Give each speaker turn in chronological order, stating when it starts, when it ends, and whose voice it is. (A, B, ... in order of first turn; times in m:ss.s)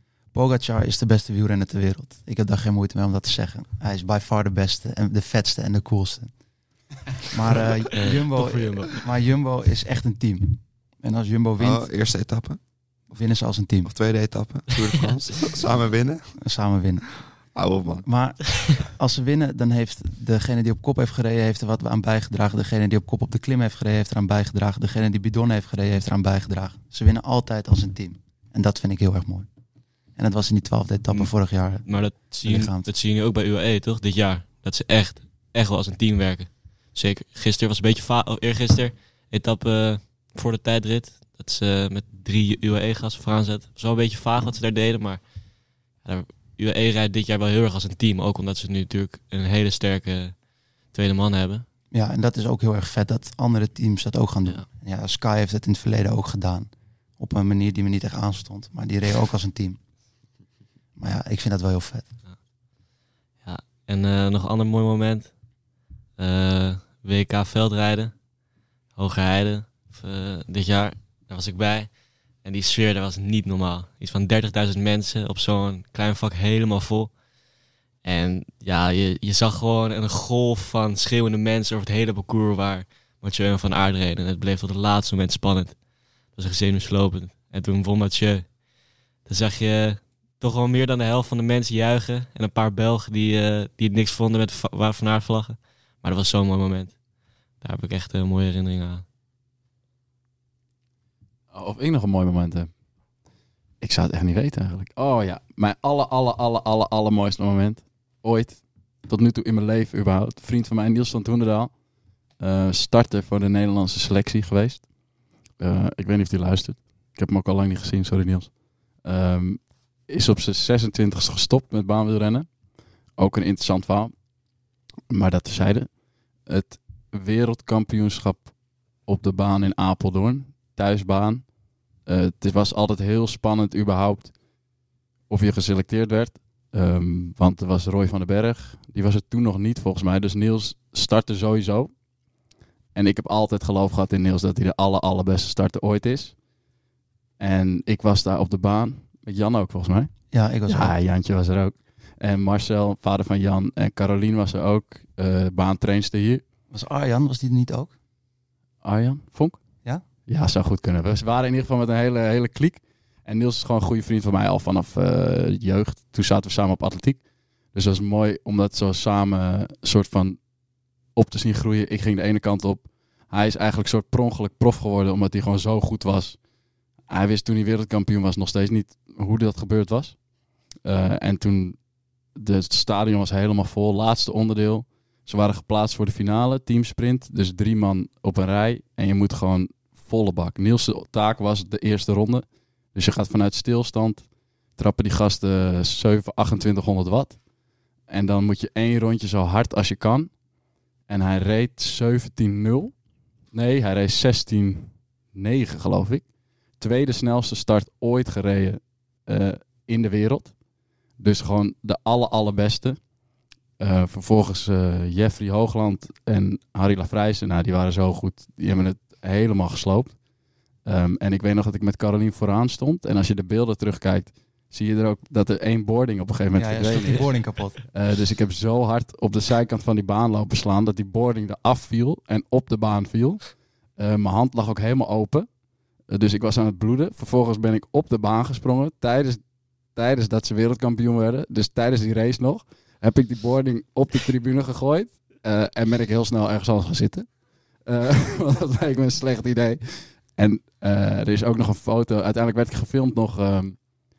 0:00.3-0:06.3 A
0:07.3-0:11.9 A
0:08.0-0:09.0 B
0:11.6-0:12.6 C
0:13.1-0:14.0 A
0:13.8-0:16.3 C
0:16.4-0:17.4 A
0:17.5-0:18.0 C
0:18.0-0:29.5 A
0:30.2-0:32.9 A
0:31.1-0:51.7 B
0:51.9-0:59.8 A
1:01.0-1:02.1 A
1:03.4-1:05.4 B
1:06.2-1:08.2 B
1:09.0-1:17.2 B
1:18.0-1:28.6 B
1:29.2-1:37.0 B
1:37.6-1:39.0 B
1:41.5-1:42.7 D
1:43.8-1:51.8 D
1:52.4-1:54.9 D
1:55.5-2:02.5 D
2:03.1-2:04.1 D
2:05.1-2:05.9 D
2:06.5-2:14.4 D
2:15.3-2:21.9 D
2:23.0-2:26.4 D
2:27.4-2:30.1 D
2:30.3-2:30.9 A
2:30.7-2:36.4 D
2:36.7-2:37.9 A
2:38.8-2:39.6 D
2:40.3-2:47.2 D
2:47.7-2:50.5 D
2:51.1-2:56.4 D
2:57.1-3:00.2 D
3:00.8-3:01.8 D
3:02.4-3:17.4 D
3:18.1-3:20.3 D
3:21.1-3:23.0 D
3:23.5-3:30.6 D
3:31.2-3:33.1 D
3:33.8-3:40.2 D
3:40.8-3:55.5 D
3:46.5-3:47.8 A
3:56.1-4:13.8 D